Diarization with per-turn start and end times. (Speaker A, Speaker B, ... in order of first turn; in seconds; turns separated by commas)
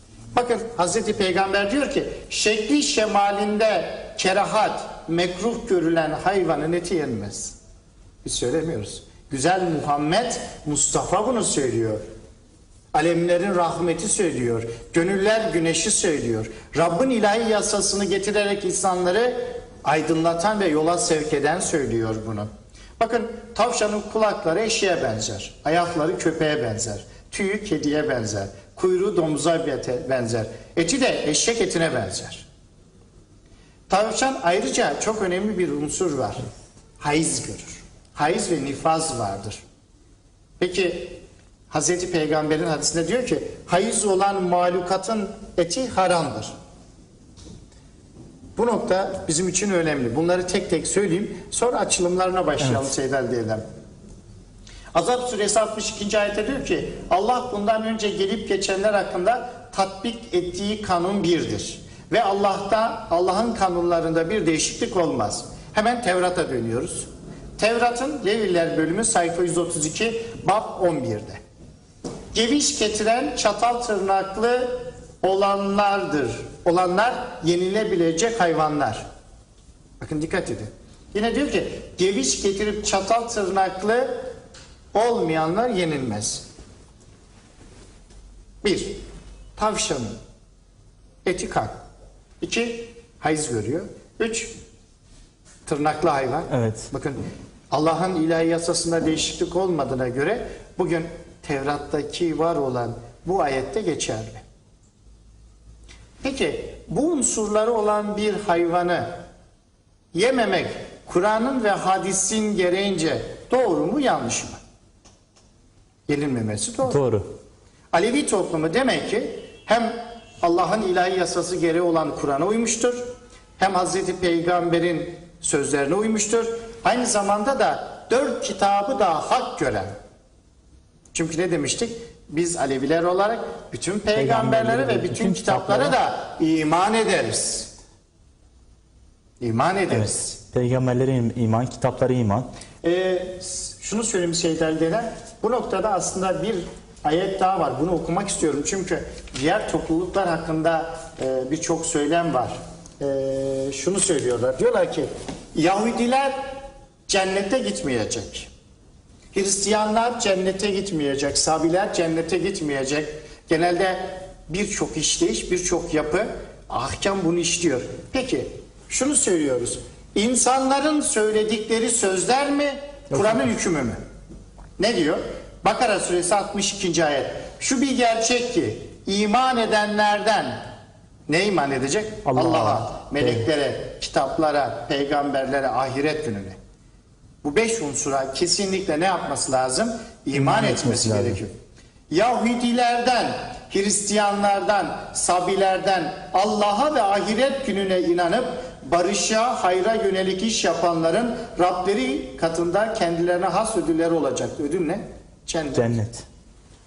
Speaker A: 0.3-7.6, Speaker A: 8.2-12.0, Speaker A: 12.9-32.5, Speaker A: 33.9-36.5, Speaker A: 37.0-39.6, Speaker A: 40.6-46.5, Speaker A: 48.6-53.6, Speaker A: 54.9-71.4, Speaker A: 72.3-79.1, Speaker A: 80.0-84.3, Speaker A: 84.9-86.5, Speaker A: 88.6-89.0, Speaker A: 89.6-90.1, Speaker A: 91.2-91.8, Speaker A: 92.4-94.5, Speaker A: 95.7-97.2, Speaker B: 96.5-96.9, Speaker A: 97.7-104.4, Speaker A: 106.2-109.1, Speaker A: 110.1-114.6, Speaker A: 116.1-117.0, Speaker B: 116.8-117.3, Speaker A: 117.9-123.0, Speaker A: 123.6-129.9, Speaker A: 131.1-137.7, Speaker B: 134.2-136.0, Speaker A: 139.4-140.3, Speaker B: 139.9-142.5, Speaker A: 142.8-158.5, Speaker A: 159.3-174.0, Speaker B: 173.2-173.5, Speaker A: 174.8-180.6, Speaker A: 181.3-186.6, Speaker B: 182.3-183.4, Speaker A: 187.4-191.5, Speaker B: 190.3-191.4, Speaker A: 192.1-206.0, Speaker B: 205.7-206.2